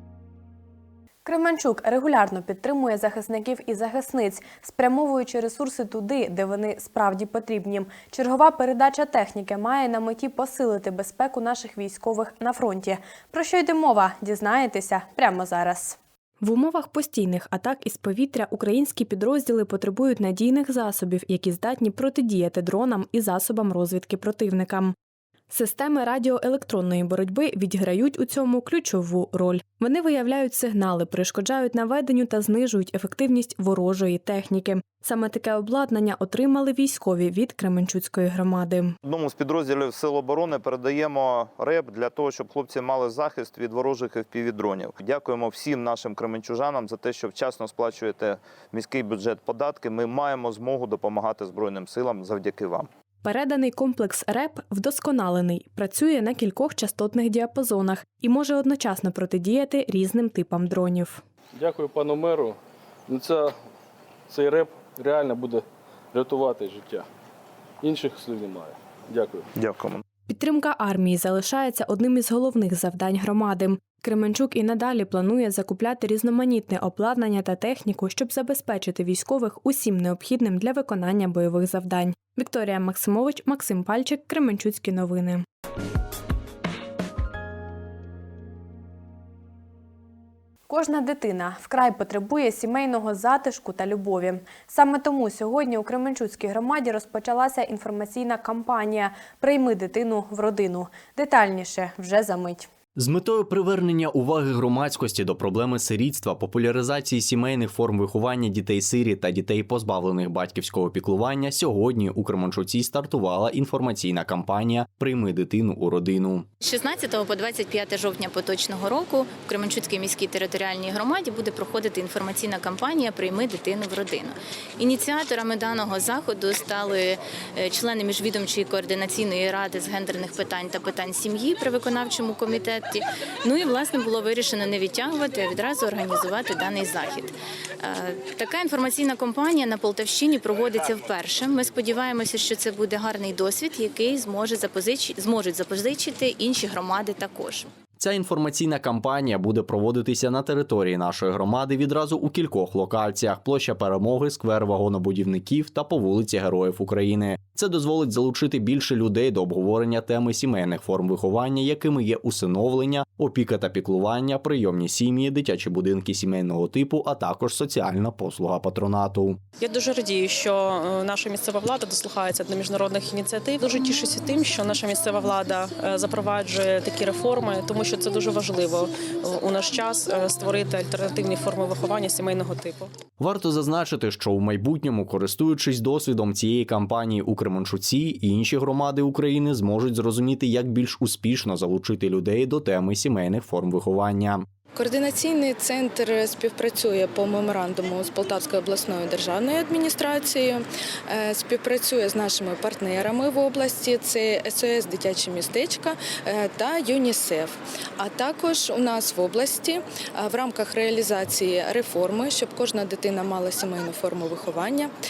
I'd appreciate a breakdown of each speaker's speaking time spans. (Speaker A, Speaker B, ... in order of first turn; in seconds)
Speaker A: 1.2-24.9, 25.5-39.0, 53.2-61.2, 70.3-85.4, 90.7-102.7
Speaker B: 39.0-52.9, 69.5-70.0
Speaker C: 61.6-62.5, 63.1-63.5, 64.3-65.6, 66.1-67.0, 67.8-69.4
Speaker D: 103.0-116.5, 148.0-169.4, 183.2-194.4
Speaker E: 116.6-147.7
Speaker F: 169.7-182.8
Speaker G: 194.8-200.6, 201.1-214.9